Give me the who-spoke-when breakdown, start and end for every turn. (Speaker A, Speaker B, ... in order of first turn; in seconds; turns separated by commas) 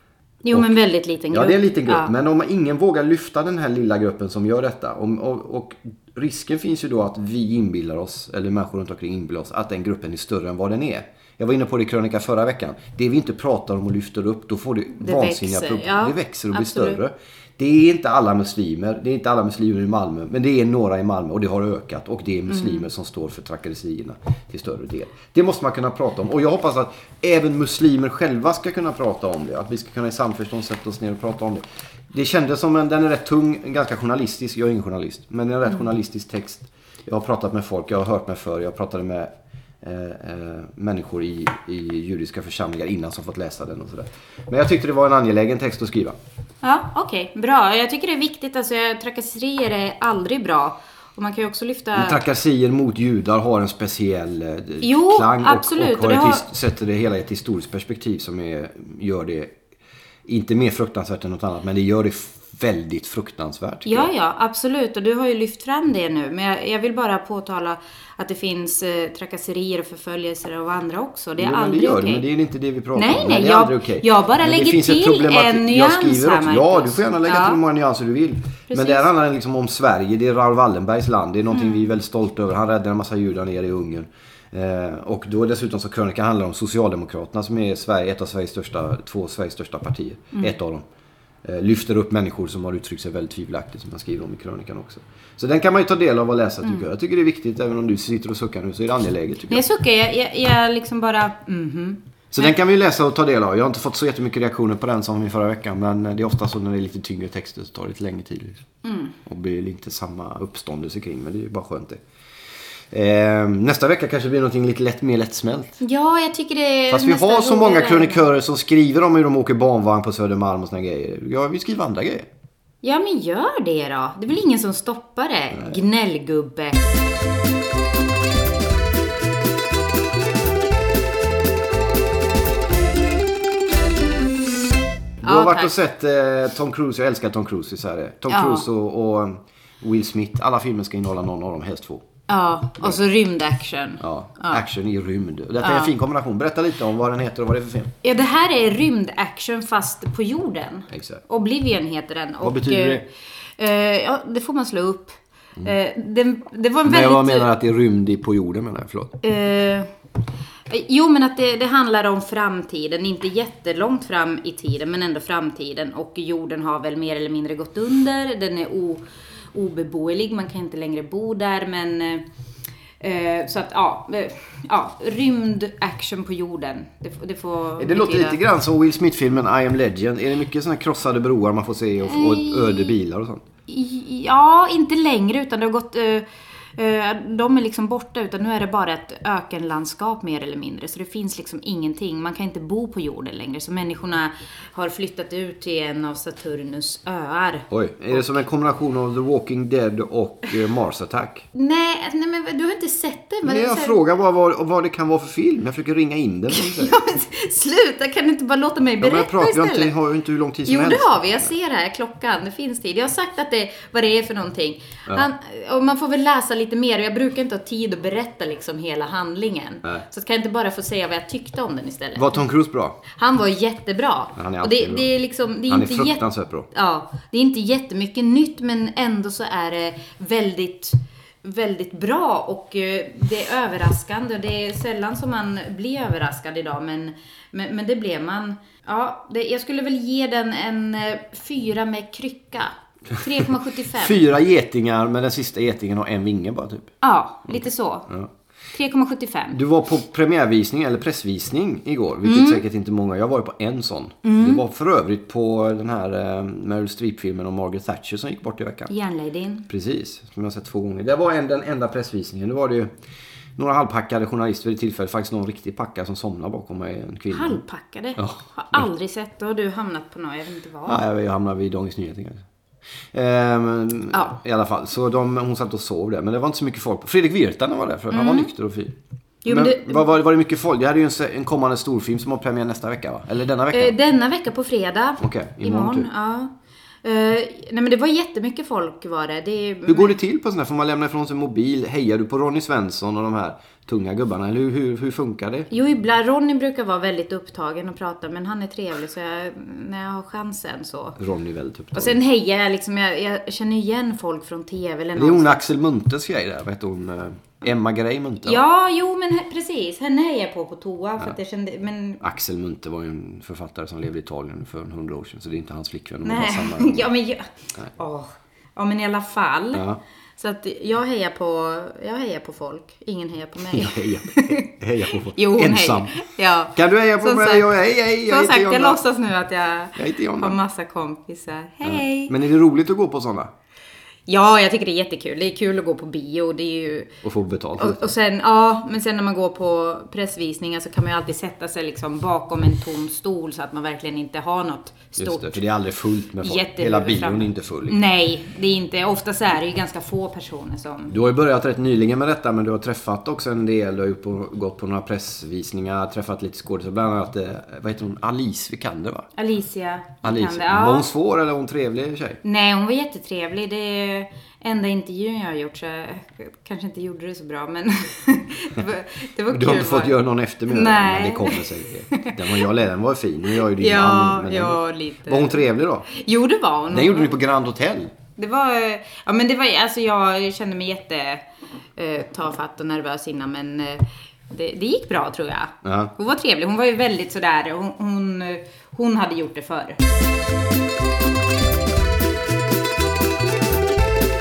Speaker A: 0.4-2.1, Speaker B: 1.3-39.3, Speaker A: 15.0-17.0, Speaker A: 22.5-22.9, Speaker B: 39.8-46.2, Speaker A: 46.6-52.2, Speaker B: 51.9-59.5, Speaker A: 54.8-56.5, Speaker B: 60.3-64.1, Speaker A: 63.9-72.3, Speaker B: 71.4-90.8, Speaker A: 72.9-77.6, Speaker A: 78.7-79.1, Speaker A: 81.5-81.9, Speaker B: 91.5-99.7, Speaker A: 99.5-102.5, Speaker B: 102.3-108.6, Speaker A: 108.8-109.2, Speaker B: 109.2-112.0, Speaker B: 112.9-115.8, Speaker A: 115.8-118.3, Speaker B: 116.9-122.3, Speaker A: 122.8-126.9, Speaker B: 125.5-125.8, Speaker B: 135.2-142.0, Speaker A: 135.2-135.7, Speaker A: 138.3-138.7, Speaker A: 142.3-144.6, Speaker B: 144.0-147.9, Speaker A: 145.6-145.9, Speaker A: 148.0-157.5, Speaker B: 150.9-151.2, Speaker B: 152.4-153.1, Speaker B: 156.8-159.2, Speaker A: 159.2-159.9, Speaker A: 160.7-172.2, Speaker A: 173.0-178.4, Speaker B: 177.8-183.4, Speaker A: 182.1-183.0, Speaker A: 183.7-198.4, Speaker B: 197.7-201.5, Speaker A: 201.5-204.0, Speaker B: 203.4-207.0, Speaker A: 206.5-209.9, Speaker B: 209.0-211.5, Speaker A: 210.7-222.4, Speaker B: 222.2-223.0, Speaker A: 223.1-244.2, Speaker B: 224.4-225.1, Speaker B: 225.7-226.7, Speaker B: 243.9-246.9, Speaker A: 247.0-248.1, Speaker B: 247.5-248.3, Speaker A: 248.7-249.6, Speaker B: 249.5-258.9, Speaker A: 252.2-252.7, Speaker A: 254.2-254.6, Speaker A: 258.9-259.7, Speaker B: 259.7-262.9, Speaker B: 263.6-267.6, Speaker A: 267.3-271.0, Speaker B: 268.2-268.8, Speaker B: 270.9-272.4, Speaker B: 273.1-278.9, Speaker A: 278.1-278.5, Speaker A: 279.4-280.1, Speaker B: 279.5-284.0, Speaker A: 283.7-290.1, Speaker B: 285.2-286.1, Speaker B: 289.9-295.7, Speaker A: 295.7-301.2, Speaker B: 301.2-302.2, Speaker A: 301.9-305.6, Speaker B: 305.2-308.6, Speaker A: 308.4-312.2, Speaker B: 312.2-317.1, Speaker A: 316.2-319.9, Speaker B: 319.7-320.0, Speaker A: 320.4-332.4, Speaker B: 323.6-326.2, Speaker B: 326.7-329.0, Speaker B: 330.0-330.6, Speaker B: 331.8-333.5, Speaker A: 334.3-337.1, Speaker B: 337.2-338.1, Speaker A: 337.8-345.6, Speaker B: 345.2-348.0, Speaker A: 346.4-351.2, Speaker B: 351.1-359.3, Speaker A: 359.4-361.1, Speaker B: 360.2-362.4, Speaker A: 362.4-372.6, Speaker B: 369.5-376.1, Speaker A: 373.5-377.4, Speaker B: 376.9-378.1, Speaker A: 378.4-381.4, Speaker A: 382.0-390.0, Speaker B: 385.8-386.1